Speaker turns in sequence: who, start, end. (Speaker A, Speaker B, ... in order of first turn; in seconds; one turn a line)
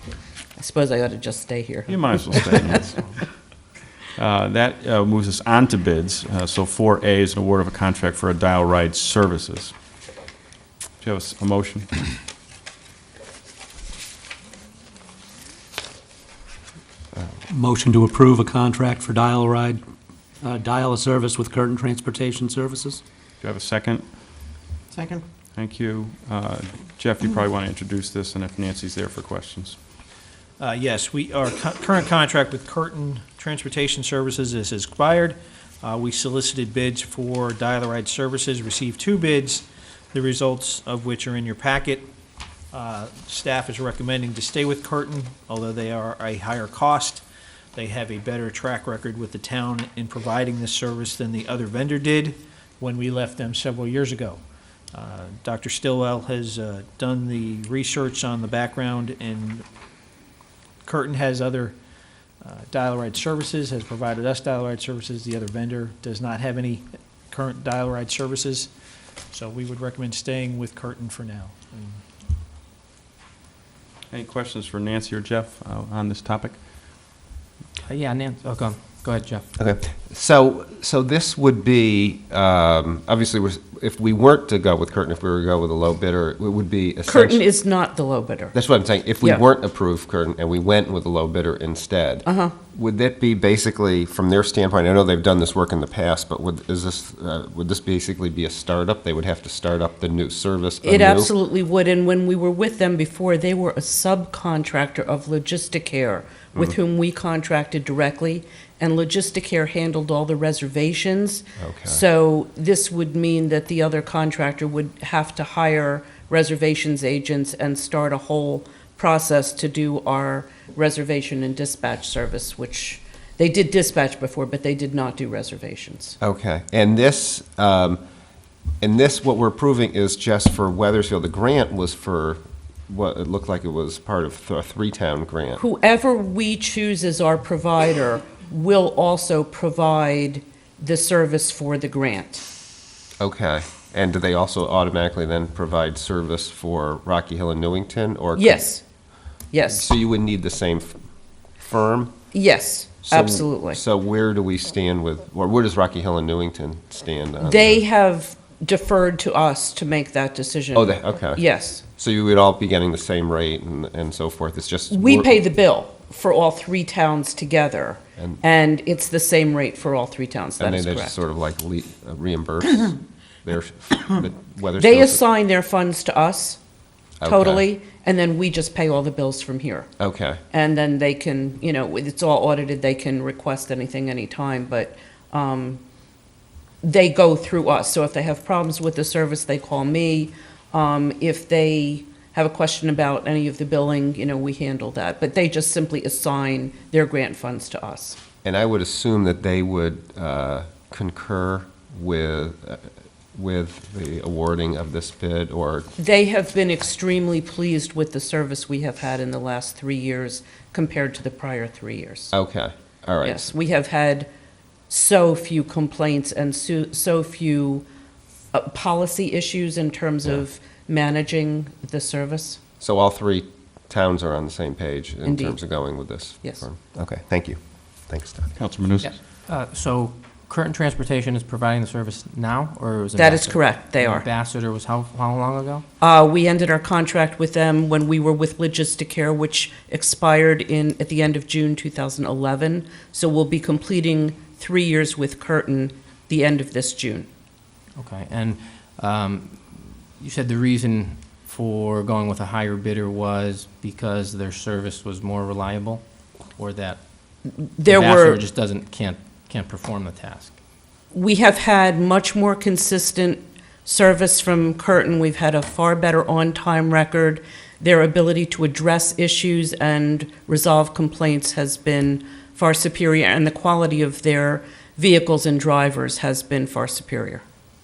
Speaker A: 0.6-2.8
Speaker B: 1.9-3.1
Speaker B: 4.1-9.7
Speaker B: 11.0-11.9
Speaker C: 17.5-19.8
Speaker C: 20.4-23.0
Speaker B: 23.4-24.4
Speaker B: 25.6-29.8
Speaker D: 30.6-42.1
Speaker D: 42.7-47.2
Speaker D: 47.7-54.4
Speaker D: 54.9-59.6
Speaker D: 60.8-61.8
Speaker D: 62.4-68.7
Speaker D: 69.3-72.0
Speaker B: 74.1-76.6
Speaker E: 77.8-79.4
Speaker F: 79.6-87.4
Speaker A: 87.0-88.5
Speaker F: 88.5-101.3
Speaker A: 92.2-92.5
Speaker A: 100.8-126.2
Speaker F: 111.6-112.0
Speaker F: 126.2-128.0
Speaker F: 128.8-135.6
Speaker A: 135.6-142.4
Speaker F: 143.2-148.7
Speaker A: 148.3-148.8
Speaker A: 149.5-149.9
Speaker F: 149.7-151.0
Speaker F: 151.6-152.2
Speaker A: 152.3-153.8
Speaker F: 153.0-157.8
Speaker A: 157.4-161.8
Speaker F: 160.7-165.4
Speaker A: 164.9-171.2
Speaker F: 170.6-175.2
Speaker A: 174.8-176.6
Speaker F: 177.2-177.7
Speaker A: 177.2-179.9
Speaker F: 180.0-180.4
Speaker A: 180.5-185.8
Speaker A: 186.8-198.2
Speaker F: 198.4-205.9
Speaker A: 206.0-212.3
Speaker F: 212.3-213.5
Speaker A: 213.2-214.3
Speaker A: 214.9-217.8
Speaker A: 218.5-222.6
Speaker F: 222.8-228.5
Speaker A: 225.2-225.7
Speaker B: 228.6-229.2
Speaker E: 229.0-235.8
Speaker A: 233.2-234.3
Speaker A: 236.0-247.3
Speaker E: 248.0-257.1
Speaker A: 257.8-258.4
Speaker E: 257.8-260.6
Speaker A: 261.1-277.4